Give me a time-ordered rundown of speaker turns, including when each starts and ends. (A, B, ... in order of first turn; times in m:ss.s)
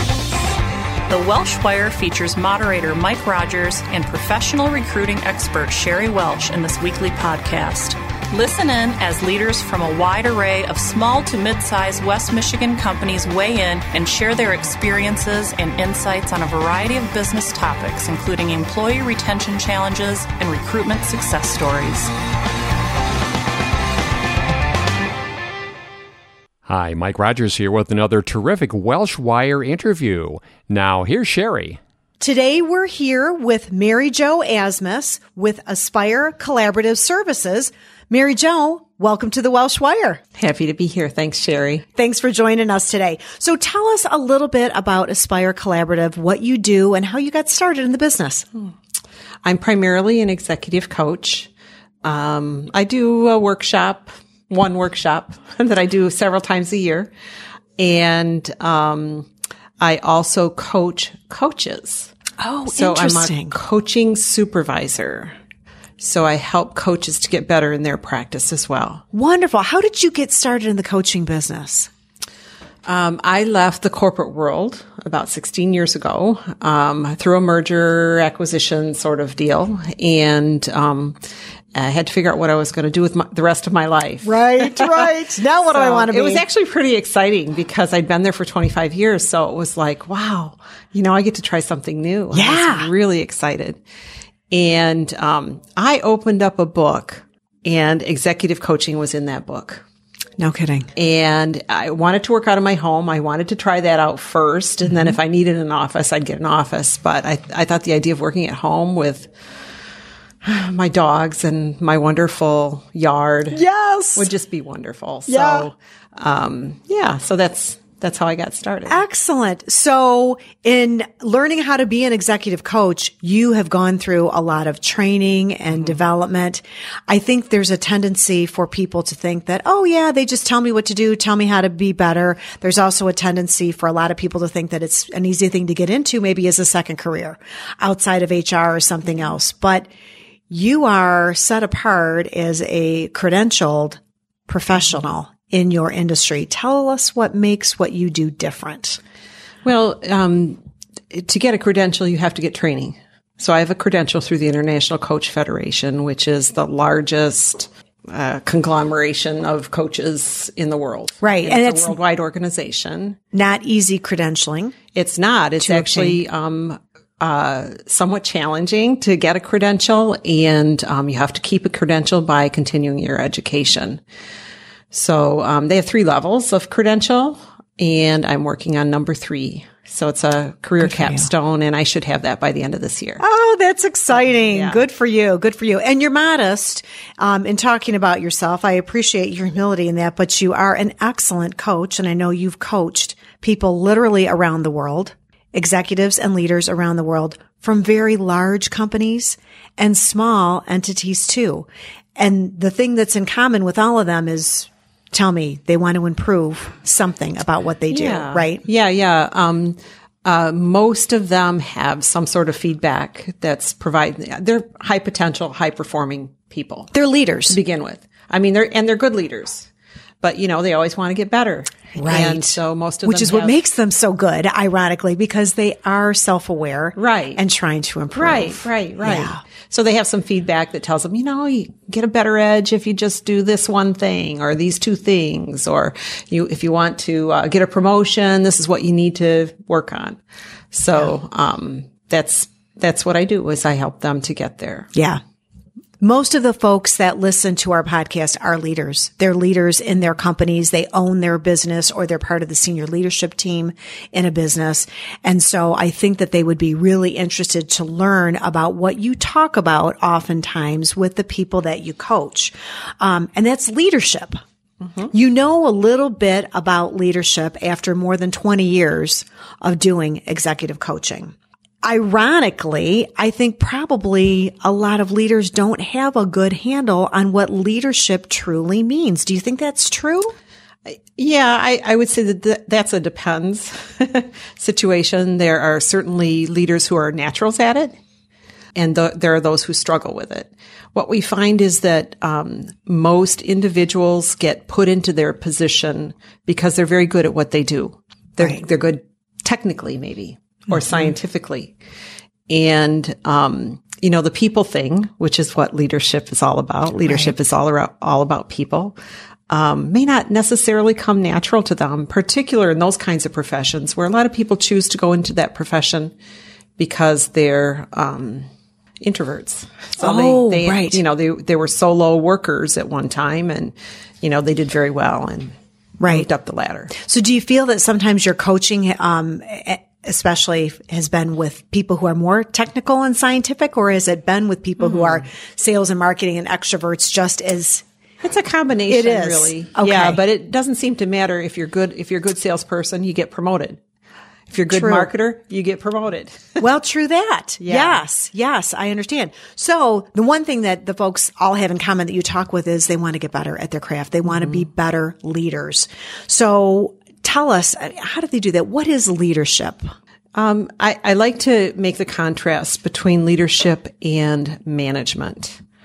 0:01.1-0:22.1 A
0:26.7-0:31.8 B
0:32.2-0:40.2 C
0:40.4-0:41.8 D
0:41.9-0:48.4 C
0:49.4-0:51.5 D
0:52.0-0:57.1 D
0:57.8-0:59.3 D
0:59.8-1:02.1 D
1:02.4-1:03.5 C
1:02.7-1:05.3 D
1:06.0-1:09.0 D
1:09.1-1:11.9 C
1:12.8-1:21.2 D
1:21.7-1:25.1 D
1:24.2-1:26.4 C
1:25.7-1:33.8 D
1:32.3-1:32.9 C
1:34.5-1:39.8 D
1:40.4-1:40.9 C
1:40.9-1:49.3 D
1:50.4-1:53.6 D
1:53.5-1:54.3 C
1:54.2-1:59.0 D
1:55.3-1:55.7 C
1:58.9-2:19.9 C
2:20.5-2:29.0 C
2:29.6-2:30.6 D
2:31.1-2:43.2 D
2:41.2-2:42.0 C
2:43.3-2:44.8 C
2:44.9-2:54.0 D
2:45.6-2:46.2 C
2:54.9-3:03.2 D
3:00.8-3:01.3 C
3:03.2-3:28.6 C
3:04.5-3:04.8 D
3:27.9-3:36.9 D
3:36.9-3:37.6 C
3:37.5-3:39.7 D
3:40.2-3:43.6 D
3:42.0-3:49.4 C
3:46.9-3:47.4 D
3:48.1-4:00.2 D
4:00.7-4:04.9 D
4:04.9-4:05.2 C
4:06.0-4:24.4 C
4:24.8-4:25.1 D
4:25.1-4:40.3 C
4:40.8-4:47.9 D
4:48.7-5:01.7 D
5:02.5-5:09.0 D
5:09.5-5:16.1 D
5:16.8-5:18.5 D
5:19.0-5:25.5 D
5:20.0-5:21.0 C
5:26.0-5:26.3 C
5:26.1-5:26.9 D
5:26.9-5:37.8 C
5:34.8-5:35.2 D
5:38.2-5:43.8 D
5:38.9-5:40.2 C
5:44.5-5:46.6 D
5:44.7-5:45.1 C
5:46.6-5:59.9 C
5:47.6-5:48.0 D
6:00.3-6:05.6 D